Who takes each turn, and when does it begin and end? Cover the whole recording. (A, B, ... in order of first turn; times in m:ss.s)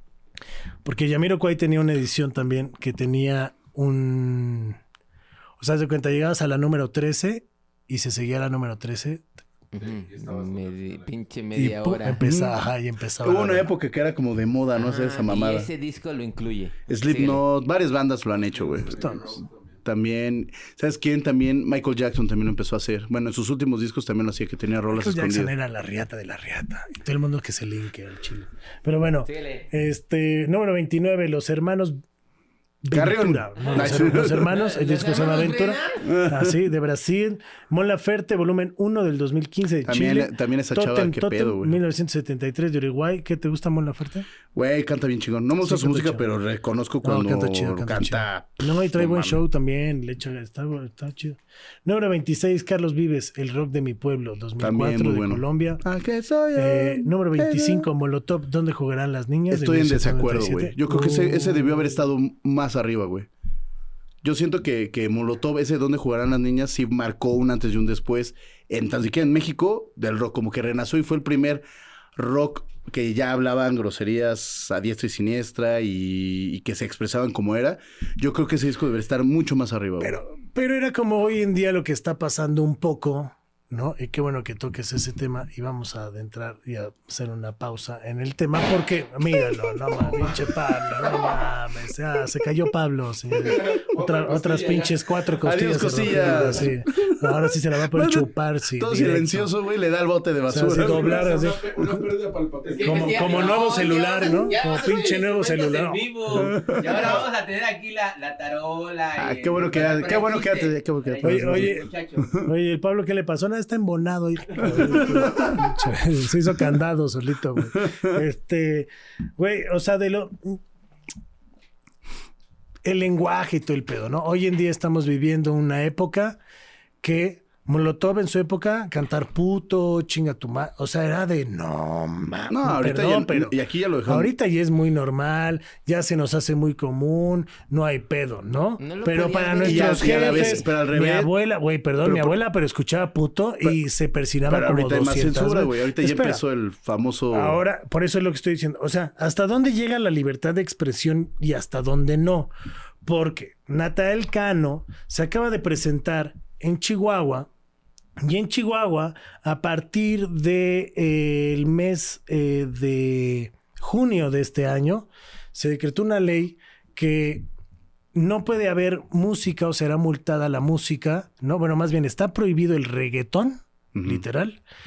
0:00.8-0:04.8 A
0:05.6-0:09.3 A
0:09.7-0:12.2 B
0:09.8-0:11.2 C
0:11.6-0:13.7 A
0:12.2-0:12.6 D
0:13.2-0:15.7 D
0:14.8-0:17.4 B
0:16.9-0:19.0 D
0:18.5-0:19.8 C
0:18.9-0:19.4 A
0:19.8-0:25.5 D
0:24.9-0:32.0 A
0:29.3-0:29.7 B
0:32.8-0:44.3 A
0:32.9-0:34.5 D
0:33.6-0:36.1 B
0:36.1-0:36.6 D
0:39.8-0:41.8 D
0:44.5-0:49.4 D
0:45.6-0:46.2 A
0:47.0-0:55.8 A
0:54.6-0:57.9 D
0:56.6-1:02.0 A
0:59.5-1:03.3 D
1:04.2-1:11.6 D
1:12.2-1:20.2 D
1:20.0-1:39.5 A
1:33.3-1:35.0 C
1:35.4-1:41.2 D
1:36.2-1:36.6 C
1:40.5-1:42.0 A
1:40.7-1:43.8 C
1:42.7-1:52.3 B
1:42.8-1:46.5 A
1:46.3-1:47.3 D
1:49.2-1:52.5 D
1:51.2-1:51.9 A
1:52.4-2:00.6 A
1:54.6-1:55.7 D
1:57.7-1:58.1 D
2:02.8-2:06.4 A
2:07.0-2:26.4 A
2:12.5-2:14.3 D
2:18.8-2:20.7 B
2:19.6-2:21.3 D
2:22.0-2:22.4 D
2:24.5-2:27.6 D
2:27.3-2:32.5 A
2:33.0-2:37.5 A
2:38.2-2:47.5 A
2:48.1-2:54.6 A
2:54.0-2:54.2 D